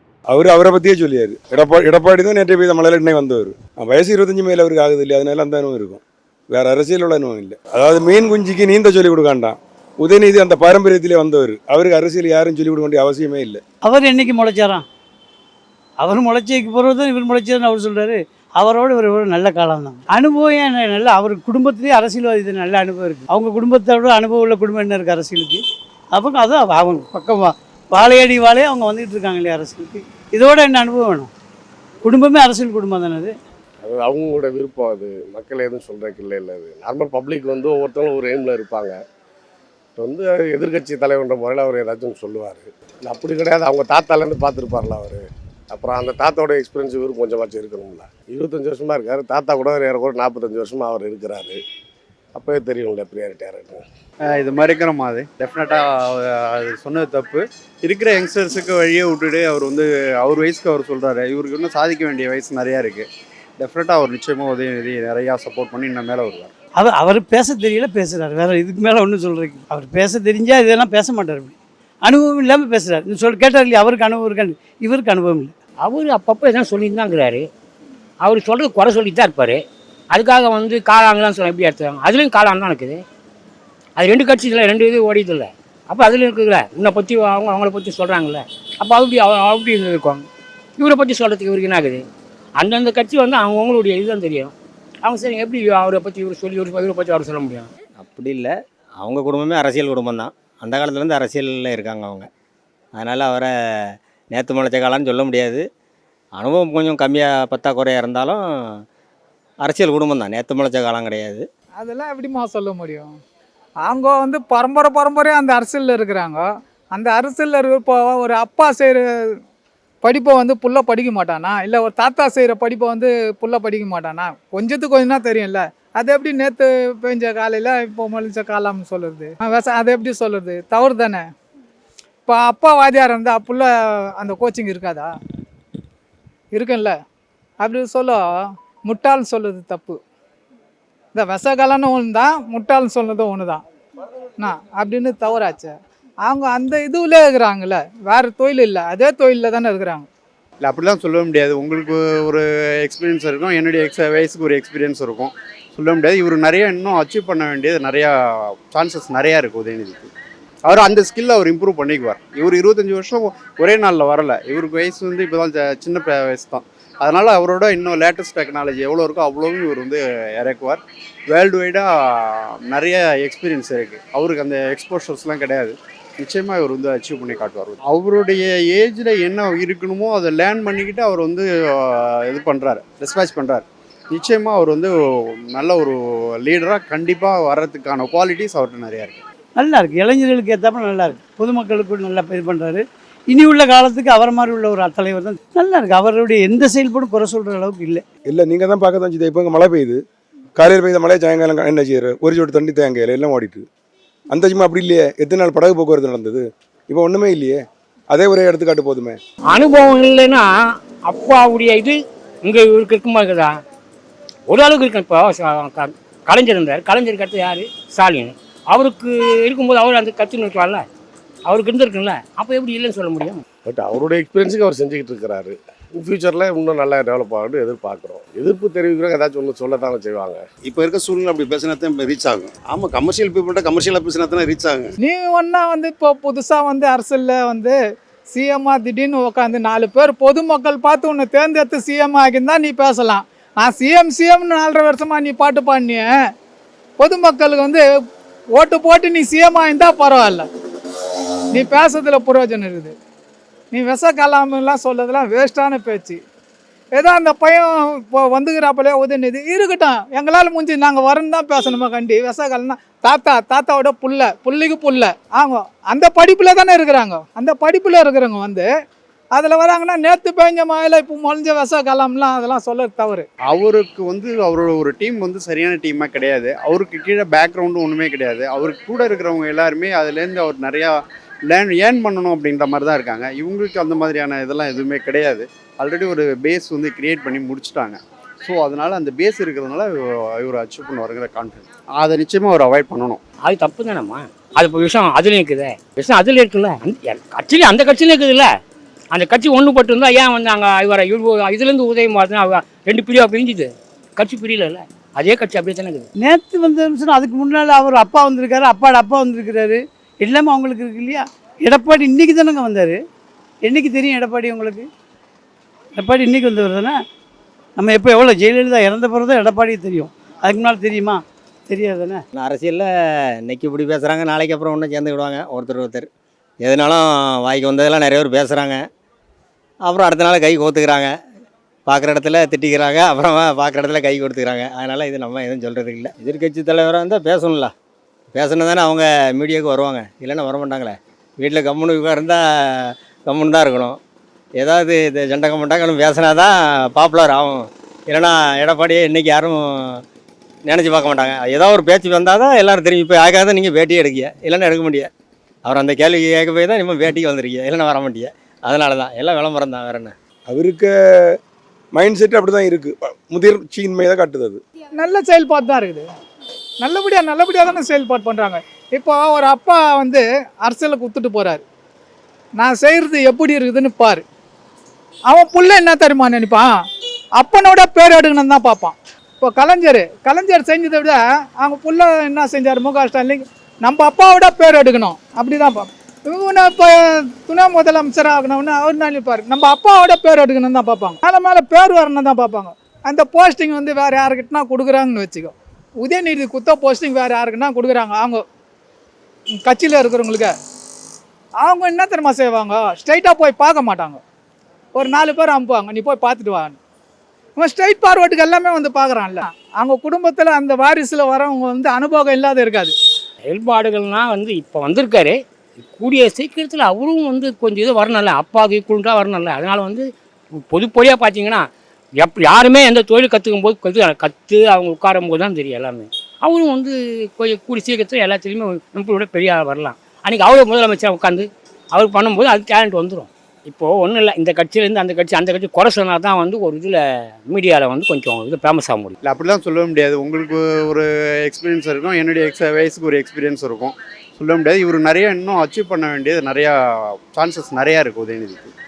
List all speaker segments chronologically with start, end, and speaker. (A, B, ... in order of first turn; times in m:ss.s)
0:00.3-0:13.6 A
0:13.8-0:14.8 B
0:16.0-0:31.3 B
0:32.0-0:33.3 B
0:33.8-0:39.0 C
0:40.0-0:51.6 C
0:52.3-0:53.8 C
0:54.3-1:03.1 D
1:03.6-1:06.5 D
1:06.8-1:15.5 B
1:15.8-1:17.4 E
1:18.2-1:19.6 E
1:20.1-1:23.0 E
1:24.0-1:30.2 E
1:30.8-1:32.0 E
1:32.6-1:34.5 E
1:35.0-1:37.7 E
1:38.0-1:42.3 F
1:43.0-1:45.6 F
1:46.4-1:48.4 F
1:49.6-1:51.4 F
1:51.8-1:53.1 G
1:53.8-1:59.4 G
2:00.0-2:11.3 G
2:12.2-2:15.1 G
2:16.5-2:17.0 G
2:17.6-2:20.0 G
2:21.1-2:23.6 G
2:24.4-2:25.7 G
2:26.2-2:30.1 G
2:30.6-2:40.1 D
2:40.6-3:04.9 D
3:05.4-3:09.2 D
3:09.6-3:18.0 B
3:18.3-3:20.0 A
3:20.6-3:23.7 A
3:24.3-3:27.6 A
3:28.1-3:29.2 A
3:29.5-3:33.5 E
3:34.5-3:40.8 E
3:41.5-3:43.4 E
3:43.6-3:50.4 C
3:50.6-3:54.9 H
3:55.0-3:57.8 G
3:58.3-4:06.1 G
4:07.0-4:07.8 G
4:08.5-4:10.5 G
4:11.5-4:12.9 G
4:13.7-4:16.2 G
4:16.9-4:28.7 G
4:29.3-4:33.3 G
4:33.5-4:53.2 D
4:53.4-4:58.5 E
4:59.1-5:06.0 E
5:06.2-5:13.0 B
5:13.6-5:14.9 B
5:15.9-5:17.0 B
5:17.8-5:22.2 B
5:22.3-5:22.9 F
5:23.4-5:26.1 F
5:26.6-5:28.8 F
5:29.8-5:31.1 F
5:31.9-5:37.7 F
5:38.3-5:44.0 F
5:44.6-5:50.0 F
5:50.6-5:55.1 F
5:55.6-6:00.1 F
6:00.5-6:00.9 A
6:02.0-6:04.6 A
6:05.0-6:06.1 G
6:06.8-6:11.6 G
6:12.6-6:14.2 G
6:15.3-6:16.8 G
6:17.4-6:38.4 G
6:39.5-6:40.5 G
6:41.6-6:44.2 G
6:44.9-6:46.8 G
6:47.6-6:52.9 G
6:53.5-7:00.0 E
7:00.6-7:01.6 E
7:02.2-7:19.2 E
7:19.2-7:28.7 D